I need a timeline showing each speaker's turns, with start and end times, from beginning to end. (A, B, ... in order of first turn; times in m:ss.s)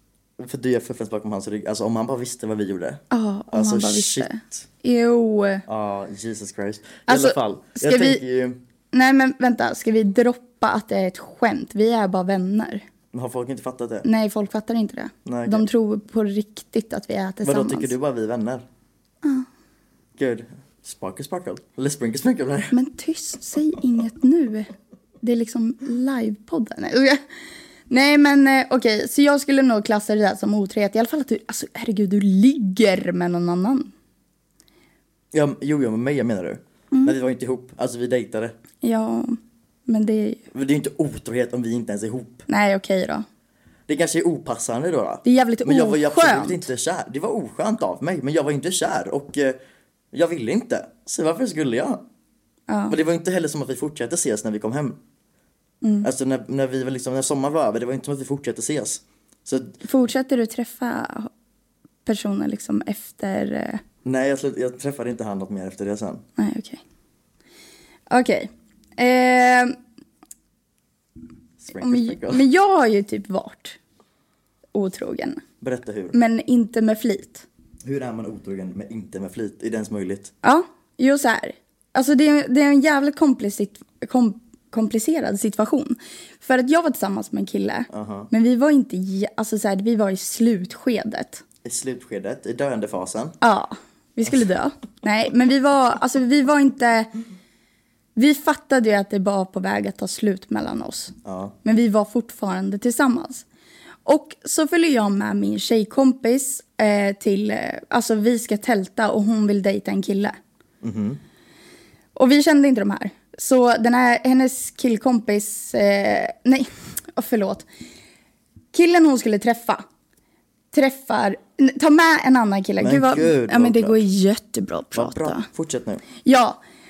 0:00.4-0:04.6 A
0:03.1-0:05.6 B
0:05.6-0:08.6 A
0:07.1-0:08.2 B
0:08.9-0:12.8 B
0:13.1-0:14.0 A
0:14.0-0:17.9 B
0:15.2-0:15.6 A
0:17.4-0:18.6 A
0:20.2-0:22.7 A
0:22.7-0:24.7 B
0:25.2-0:27.2 B
0:27.9-0:33.9 B
0:35.3-0:38.5 A
0:38.8-0:40.4 B
0:40.5-0:42.4 A
0:42.5-0:43.2 B
0:43.9-0:49.6 A
0:45.2-0:46.7 B
0:50.1-0:52.0 A
0:52.7-0:53.0 B
0:52.9-0:55.0 A
0:55.8-0:56.1 B
0:56.0-0:59.8 A
0:59.8-1:01.3 B
1:02.0-1:03.8 B
1:04.0-1:06.2 A
1:06.4-1:06.8 B
1:08.1-1:09.7 B
1:11.6-1:12.4 A
1:11.8-1:13.8 B
1:14.7-1:15.4 B
1:15.6-1:16.1 A
1:16.1-1:17.4 B
1:17.8-1:20.3 A
1:20.4-1:31.4 B
1:27.9-1:28.3 A
1:31.6-1:33.4 A
1:33.4-1:37.1 B
1:38.2-1:43.4 B
1:41.2-1:41.5 A
1:44.0-1:50.4 B
1:50.8-1:51.2 A
1:52.1-1:57.6 B
1:58.7-1:59.8 B
2:00.7-2:05.5 B
2:02.8-2:04.0 A
2:04.9-2:06.0 A
2:06.2-2:06.6 B